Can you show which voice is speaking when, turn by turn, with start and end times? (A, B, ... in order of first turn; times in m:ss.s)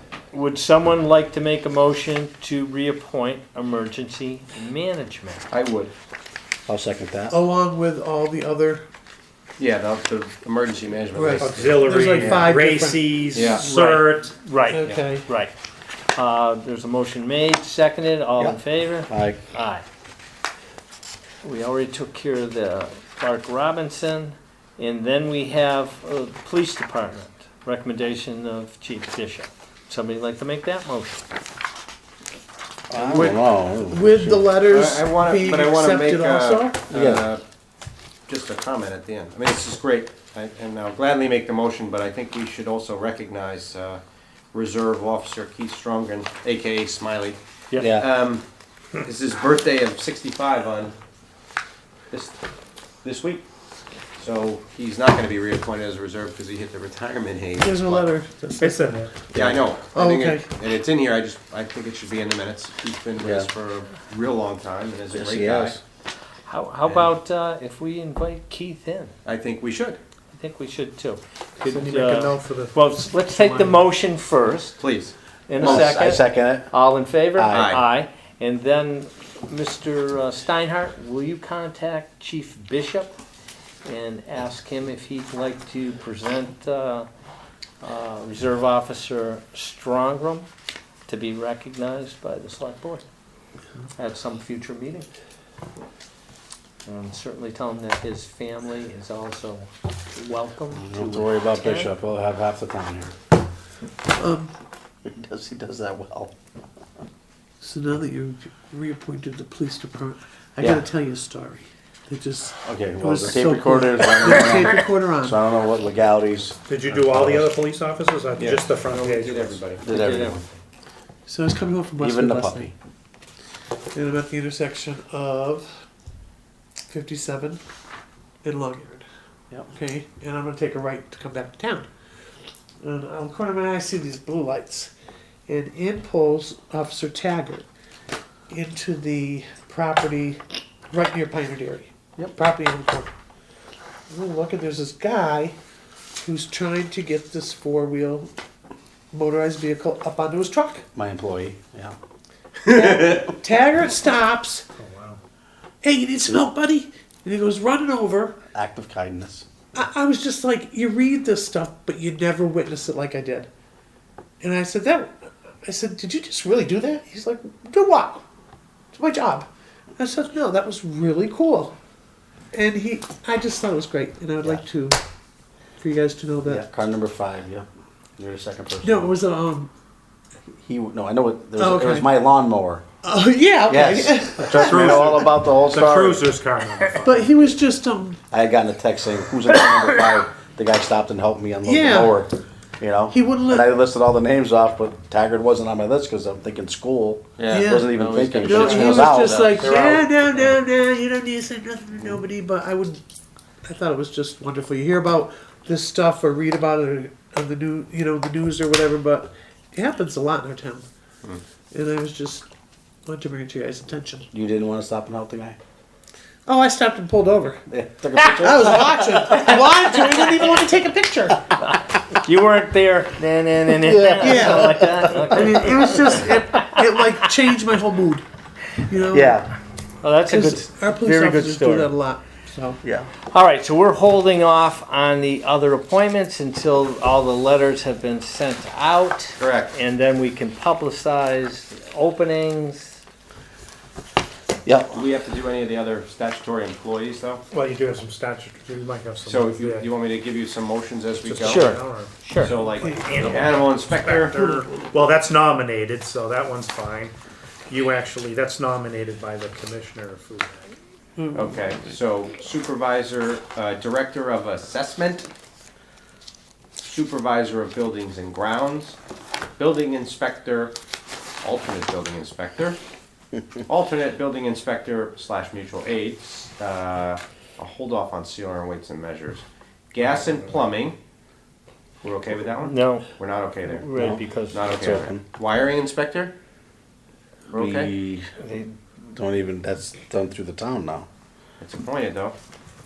0:00.3-0:05.5 A
0:05.5-0:05.9 B
0:06.7-0:07.4 C
0:07.3-0:08.8 D
0:09.6-0:12.4 B
0:11.1-0:13.5 D
0:11.4-0:14.3 E
0:13.3-0:13.7 B
0:13.4-0:15.5 A
0:14.7-0:15.3 D
0:16.1-0:19.8 A
0:18.4-0:19.4 C
0:21.4-0:31.2 A
0:32.9-0:34.5 C
0:33.0-0:36.8 D
0:34.6-0:37.4 B
0:36.9-0:37.3 C
0:38.3-0:44.0 B
0:44.5-0:48.4 B
0:47.7-0:48.0 A
0:47.8-0:48.1 C
0:49.0-0:51.0 B
0:52.1-0:52.4 B
0:53.0-0:53.4 B
0:54.2-0:58.1 B
0:57.6-0:59.1 D
0:58.6-0:59.1 E
0:59.3-1:05.8 B
0:59.3-0:59.6 C
0:59.9-1:00.5 D
1:03.2-1:03.5 C
1:05.1-1:05.8 C
1:06.4-1:09.1 A
1:06.9-1:07.1 B
1:09.2-1:10.0 B
1:10.3-1:14.8 A
1:11.6-1:13.8 E
1:14.8-1:15.9 B
1:15.5-1:23.2 A
1:15.6-1:16.7 C
1:17.3-1:17.7 C
1:17.5-1:17.8 B
1:23.8-1:27.1 A
1:27.8-1:30.5 A
1:31.1-1:33.0 A
1:34.0-1:35.1 A
1:36.9-1:41.9 A
1:40.8-1:43.1 C
1:44.2-1:44.5 D
1:45.1-1:46.3 C
1:47.6-1:55.4 D
1:50.6-1:50.9 C
1:52.6-1:57.5 C
1:56.7-1:59.6 E
1:58.4-1:59.8 B
1:59.8-2:00.4 C
1:59.9-2:00.6 A
2:01.3-2:02.7 D
2:02.0-2:02.7 C
2:03.9-2:05.7 D
2:06.9-2:07.6 D
2:08.4-2:09.1 D
2:09.7-2:11.9 D
2:12.8-2:14.9 D
2:15.5-2:17.7 D
2:18.5-2:20.4 D
2:20.9-2:23.1 D
2:24.1-2:25.6 D
2:26.2-2:28.3 D
2:29.1-2:30.9 D
2:30.9-2:32.0 C
2:32.7-2:33.3 B
2:32.7-2:34.7 D
2:34.8-2:35.2 E
2:35.8-2:38.4 D
2:38.5-2:39.5 C
2:39.7-2:43.5 D
2:44.4-2:48.2 D
2:48.9-2:51.8 D
2:52.5-2:55.0 D
2:55.8-2:56.6 D
2:56.4-2:57.7 C
2:58.2-2:59.1 C
2:58.8-2:59.7 D
3:00.5-3:02.8 C
3:01.6-3:02.1 D
3:03.0-3:05.2 D
3:03.7-3:06.3 C
3:04.5-3:07.2 E
3:07.0-3:08.2 D
3:08.3-3:19.7 C
3:11.6-3:12.2 D
3:13.1-3:13.7 D
3:17.4-3:19.8 B
3:17.5-3:23.0 D
3:19.7-3:19.9 E
3:23.6-3:30.9 D
3:31.7-3:32.5 D
3:33.1-3:34.3 D
3:34.3-3:35.6 C
3:36.5-3:37.6 D
3:37.7-3:39.5 C
3:38.2-3:41.5 D
3:41.7-3:46.6 A
3:43.8-3:45.8 C
3:44.2-3:48.2 D
3:48.8-3:49.4 D
3:49.1-3:49.5 C
3:50.0-3:51.9 A
3:50.3-3:52.8 D
3:52.8-3:53.1 C
3:53.3-4:03.0 A
3:59.4-3:59.7 B
4:04.6-4:05.0 C
4:04.9-4:07.4 B
4:07.5-4:09.9 E
4:09.2-4:11.8 B
4:11.2-4:17.1 E
4:11.4-4:12.5 A
4:12.4-4:14.5 B
4:12.6-4:13.6 D
4:17.7-4:20.8 E
4:21.2-4:21.9 D
4:21.3-4:25.3 B
4:26.8-4:29.0 B
4:29.6-4:30.8 B
4:31.4-4:32.8 B
4:33.6-4:41.0 B
4:42.0-4:43.9 B
4:42.6-4:43.1 A
4:43.6-4:44.9 A
4:43.9-4:45.2 C
4:44.5-4:46.4 B
4:47.5-4:47.9 B
4:47.5-4:48.3 C
4:48.4-4:48.8 A
4:49.1-4:51.1 C
4:51.6-4:52.4 B